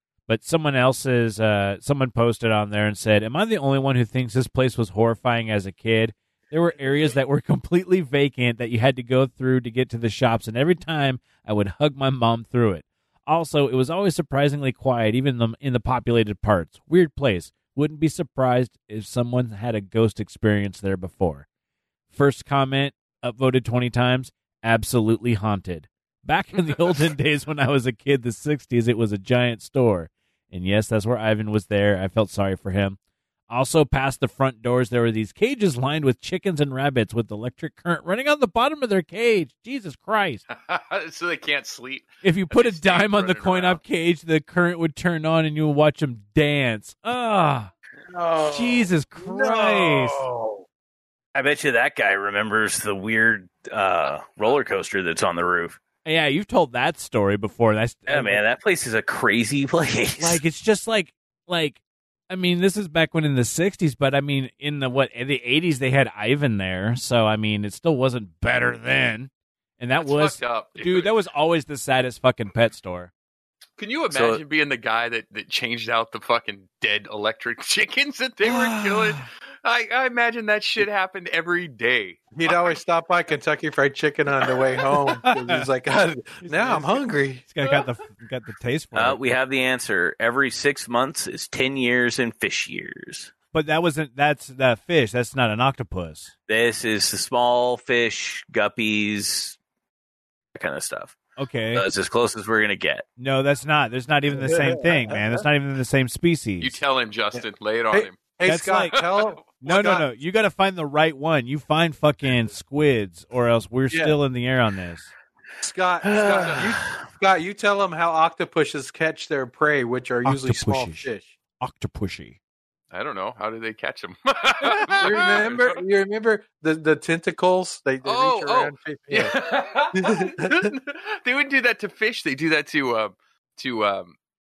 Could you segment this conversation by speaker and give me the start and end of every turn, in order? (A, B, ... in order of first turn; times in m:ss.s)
0:00.3-0:21.4 A
0:22.1-0:33.0 A
0:33.5-0:40.4 A
0:40.5-0:43.8 B
0:42.2-0:47.7 A
0:48.1-0:50.6 C
0:48.5-0:50.2 A
0:51.3-0:55.8 D
0:56.0-0:58.4 A
0:58.1-1:00.4 D
1:00.2-1:13.1 A
1:10.0-1:11.1 B
1:13.8-1:22.8 B
1:14.1-1:14.4 D
1:18.4-1:19.3 A
1:22.3-1:27.4 C
1:25.2-1:25.6 A
1:26.4-1:29.2 A
1:28.9-1:33.3 D
1:33.5-1:36.3 A
1:36.5-1:39.6 D
1:40.5-1:41.2 D
1:41.4-1:41.8 A
1:41.7-1:43.0 D
1:43.2-1:46.8 A
1:44.3-1:45.4 C
1:46.6-1:48.2 B
1:47.3-1:50.1 C
1:48.4-1:49.0 A
1:49.0-1:49.4 B
1:49.6-1:55.1 A
1:53.9-1:54.2 C
1:55.6-2:01.3 C
1:56.0-1:57.0 D
1:56.2-1:56.6 B
2:00.2-2:01.1 A
2:01.6-2:02.4 A
2:02.9-2:05.8 B
2:05.0-2:09.3 C
2:08.0-2:14.1 B
2:09.9-2:10.7 C